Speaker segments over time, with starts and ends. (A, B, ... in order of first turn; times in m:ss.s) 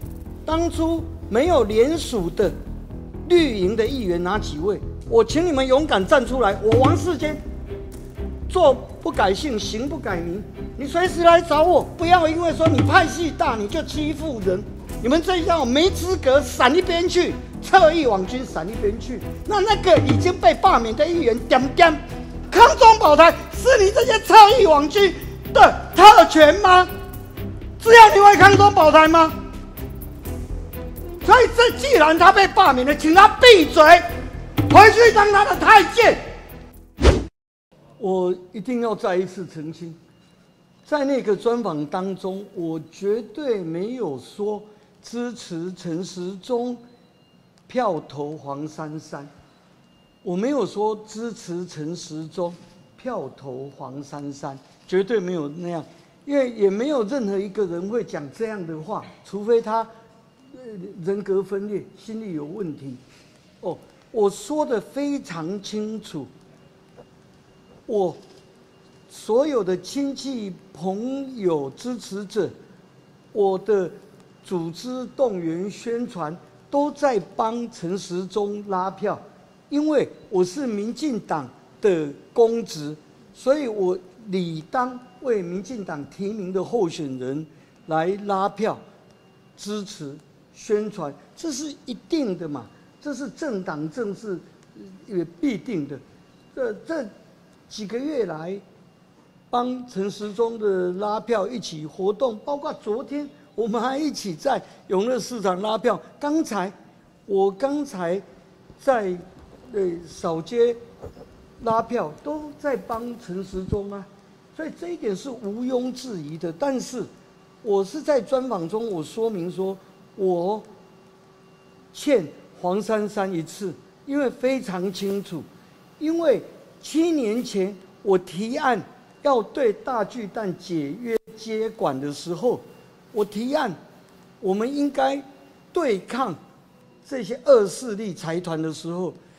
0:00.4-0:02.5 A
0:03.2-0:07.4 A
0:08.5-0:26.9 A
0:27.8-0:29.4 A
0:31.2-0:34.0 A
0:34.7-0:36.2 A
0:38.0-0:40.0 A
0:40.8-0:46.8 A
0:47.7-0:49.3 A
0:50.2-0:59.9 A
1:00.5-1:03.0 A
1:03.6-1:06.3 A
1:07.9-1:08.2 A
1:09.1-1:12.5 A
1:13.3-1:28.8 A
1:29.6-1:36.0 A
1:36.5-1:37.1 A
1:37.7-1:38.6 A
1:39.5-1:46.7 A
1:47.3-1:48.2 A
1:48.8-1:50.8 A
1:51.6-1:57.1 A
1:57.6-2:00.6 A
2:01.9-2:05.4 A
2:06.0-2:13.8 A
2:14.4-2:16.4 A
2:17.0-2:19.2 A